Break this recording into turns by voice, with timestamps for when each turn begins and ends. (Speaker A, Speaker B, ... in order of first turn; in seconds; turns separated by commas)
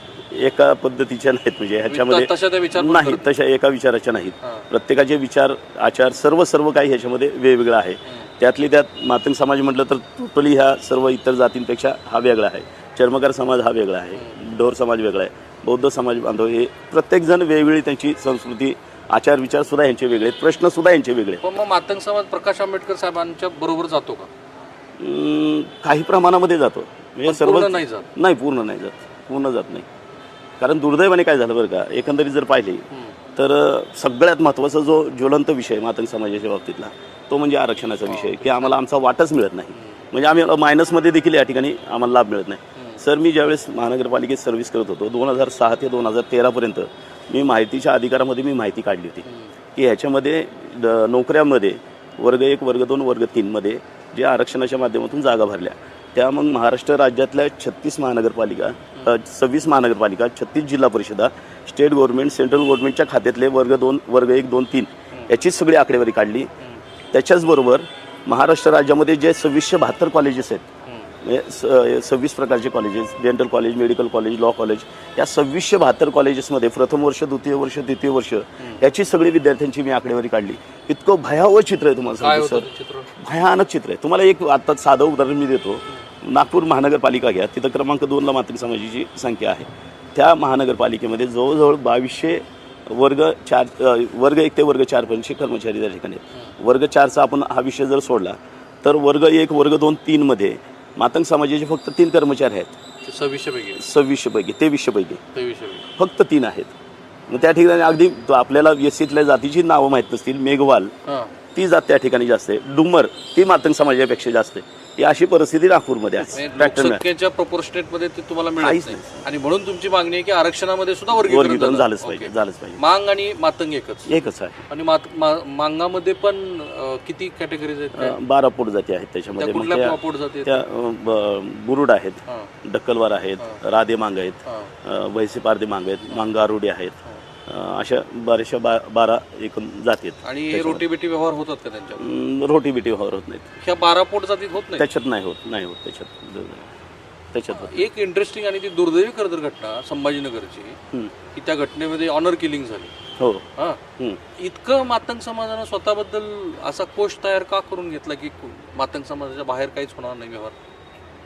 Speaker A: 0.3-21.4, Speaker B: 1.9-3.3, Speaker B: 21.4-24.3, Speaker A: 25.0-29.9, Speaker B: 27.2-28.1, Speaker A: 30.6-32.8, Speaker A: 33.4-49.2, Speaker B: 38.0-38.7, Speaker B: 39.8-40.1, Speaker B: 49.2-49.5, Speaker A: 49.7-66.5, Speaker A: 67.1-70.7, Speaker B: 70.8-71.1, Speaker A: 71.2-102.7, Speaker B: 82.2-83.1, Speaker B: 103.0-103.8, Speaker A: 103.8-105.2, Speaker B: 105.3-105.9, Speaker A: 106.0-106.7, Speaker A: 107.3-110.9, Speaker B: 111.0-111.3, Speaker A: 111.5-117.0, Speaker B: 116.3-128.2, Speaker A: 118.6-119.2, Speaker A: 121.1-122.8, Speaker A: 124.1-124.6, Speaker A: 127.9-136.9, Speaker B: 129.4-130.6, Speaker B: 134.4-134.7, Speaker A: 137.5-140.8, Speaker B: 140.2-142.1, Speaker A: 142.0-143.5, Speaker B: 143.6-144.8, Speaker A: 144.8-146.7, Speaker A: 147.3-147.9, Speaker B: 147.5-150.8, Speaker B: 151.3-152.9, Speaker A: 153.2-153.4, Speaker B: 154.3-160.5